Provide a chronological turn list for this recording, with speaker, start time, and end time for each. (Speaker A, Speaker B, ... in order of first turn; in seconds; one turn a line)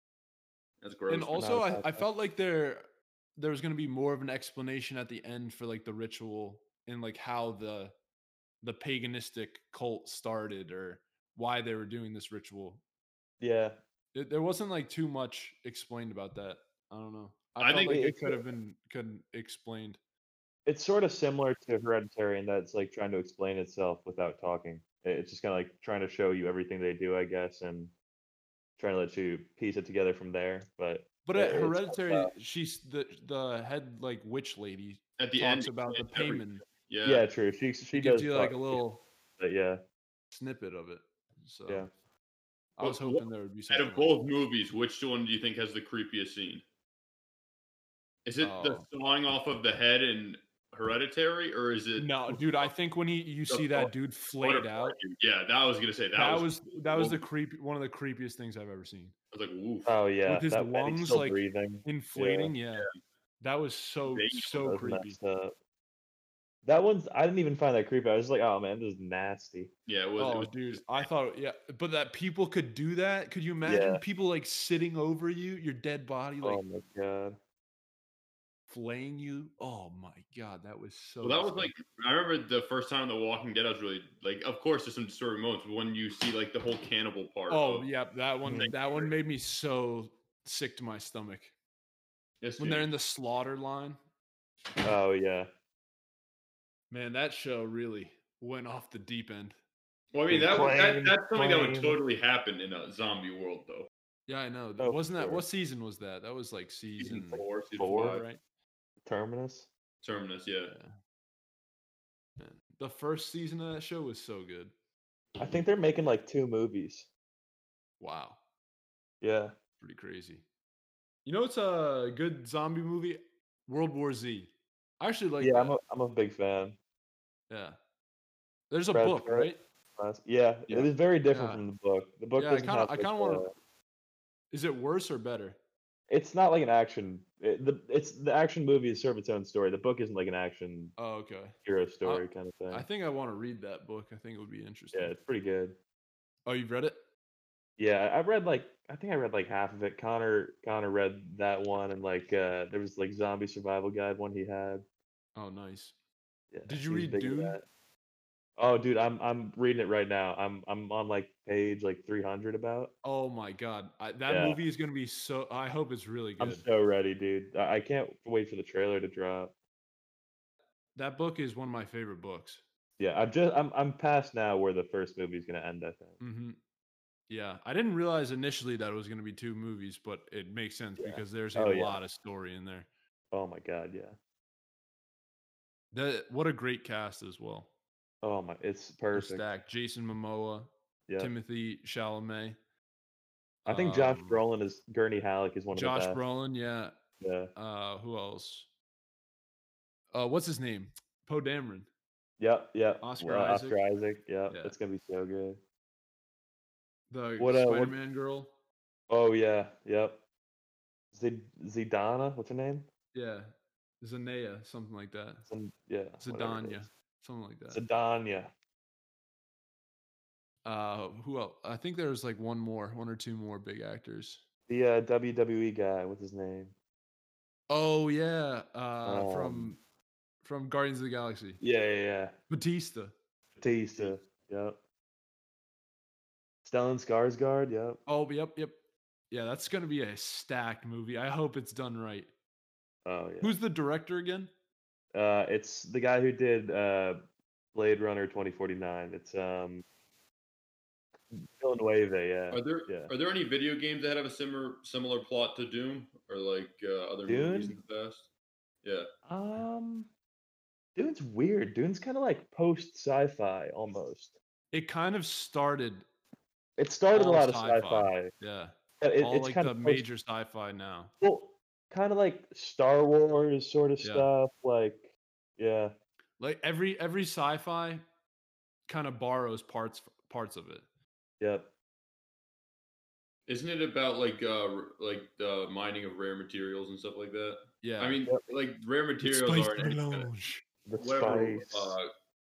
Speaker A: 0.8-1.5
Speaker B: 1.1-2.9
Speaker C: 1.3-2.0
Speaker B: 3.4-7.9
Speaker B: 8.6-12.8
Speaker C: 13.4-13.8
Speaker B: 14.1-20.0
Speaker A: 17.6-18.0
Speaker C: 17.8-18.4
Speaker C: 20.6-27.9
Speaker C: 28.8-32.3
Speaker B: 31.2-36.6
Speaker A: 35.2-37.2
Speaker C: 37.0-38.8
Speaker B: 37.9-39.0
Speaker C: 39.4-39.8
Speaker B: 40.3-41.9
Speaker B: 42.8-44.2
Speaker A: 42.8-46.6
Speaker A: 48.2-52.7
Speaker B: 48.4-48.9
Speaker B: 52.0-55.0
Speaker A: 53.5-57.2
Speaker B: 56.1-59.1
Speaker A: 59.3-59.9
Speaker C: 59.9-62.5
Speaker B: 60.3-62.9
Speaker B: 63.4-65.2
Speaker A: 64.0-64.6
Speaker C: 64.6-65.5
Speaker C: 66.6-69.7
Speaker A: 69.9-71.0
Speaker B: 70.2-76.6
Speaker C: 73.6-74.0
Speaker C: 76.4-77.4
Speaker B: 78.7-81.7
Speaker A: 81.2-87.9
Speaker B: 87.5-91.5
Speaker C: 88.5-88.7
Speaker A: 88.5-89.1
Speaker A: 92.4-92.9
Speaker B: 92.6-94.0
Speaker C: 94.8-95.5
Speaker B: 96.9-99.5
Speaker A: 100.1-103.9
Speaker C: 100.3-102.0
Speaker B: 104.3-108.4
Speaker C: 104.8-105.4
Speaker A: 107.0-108.2
Speaker C: 107.8-108.2
Speaker C: 109.0-109.7
Speaker A: 110.0-110.7
Speaker B: 110.7-110.9
Speaker B: 112.4-114.7
Speaker C: 115.4-117.1
Speaker B: 118.0-118.4
Speaker C: 119.2-119.5
Speaker B: 119.8-120.4
Speaker B: 121.2-125.8
Speaker C: 125.4-126.8
Speaker B: 127.5-127.8
Speaker B: 128.7-129.6
Speaker C: 128.9-133.5
Speaker B: 131.3-131.6
Speaker B: 132.3-133.4
Speaker B: 134.5-135.6
Speaker C: 136.1-140.9
Speaker B: 141.0-145.1
Speaker C: 141.6-142.8
Speaker C: 144.9-145.8
Speaker B: 146.4-146.9
Speaker C: 147.8-154.8
Speaker B: 155.3-155.9
Speaker C: 156.5-157.7
Speaker B: 156.7-157.6
Speaker C: 158.6-162.9
Speaker B: 163.0-166.7
Speaker C: 164.3-164.6
Speaker C: 166.4-169.5
Speaker B: 170.9-172.6
Speaker C: 173.0-176.2
Speaker B: 176.2-176.6
Speaker B: 177.3-182.9
Speaker C: 181.0-182.0
Speaker C: 183.3-184.2
Speaker B: 185.9-187.7
Speaker C: 188.2-189.4
Speaker B: 189.1-192.6
Speaker B: 193.6-194.4
Speaker C: 193.7-196.2
Speaker B: 195.7-196.9
Speaker C: 197.2-197.5
Speaker B: 197.6-198.7
Speaker B: 200.1-201.9
Speaker C: 202.4-205.6
Speaker B: 203.0-203.8
Speaker B: 204.5-204.8
Speaker B: 207.1-208.5
Speaker C: 207.4-207.9
Speaker C: 209.1-210.2
Speaker C: 211.1-212.9
Speaker B: 213.1-215.4
Speaker C: 215.5-216.9
Speaker B: 216.2-217.8
Speaker C: 217.7-218.5
Speaker B: 220.6-224.4
Speaker C: 224.7-226.7
Speaker B: 227.7-229.8
Speaker C: 229.0-229.7
Speaker B: 230.4-231.6
Speaker C: 231.6-232.3
Speaker B: 232.5-233.1
Speaker C: 233.6-234.8
Speaker C: 236.6-238.0
Speaker B: 238.1-238.7
Speaker B: 239.3-242.3
Speaker C: 243.0-243.5
Speaker B: 243.4-244.5
Speaker C: 245.1-247.2
Speaker C: 247.7-249.8
Speaker C: 251.3-253.1
Speaker A: 252.5-258.3
Speaker C: 257.3-257.8
Speaker C: 259.2-260.1
Speaker C: 260.9-264.3
Speaker B: 264.7-266.1
Speaker C: 266.8-268.3
Speaker B: 267.1-271.1
Speaker C: 269.0-270.1
Speaker C: 271.2-275.9
Speaker B: 274.0-274.3
Speaker B: 276.4-278.0
Speaker B: 278.9-280.8
Speaker C: 281.4-281.7
Speaker A: 283.5-290.3
Speaker B: 287.8-288.2
Speaker B: 289.2-290.6
Speaker C: 290.9-291.9
Speaker A: 291.0-292.1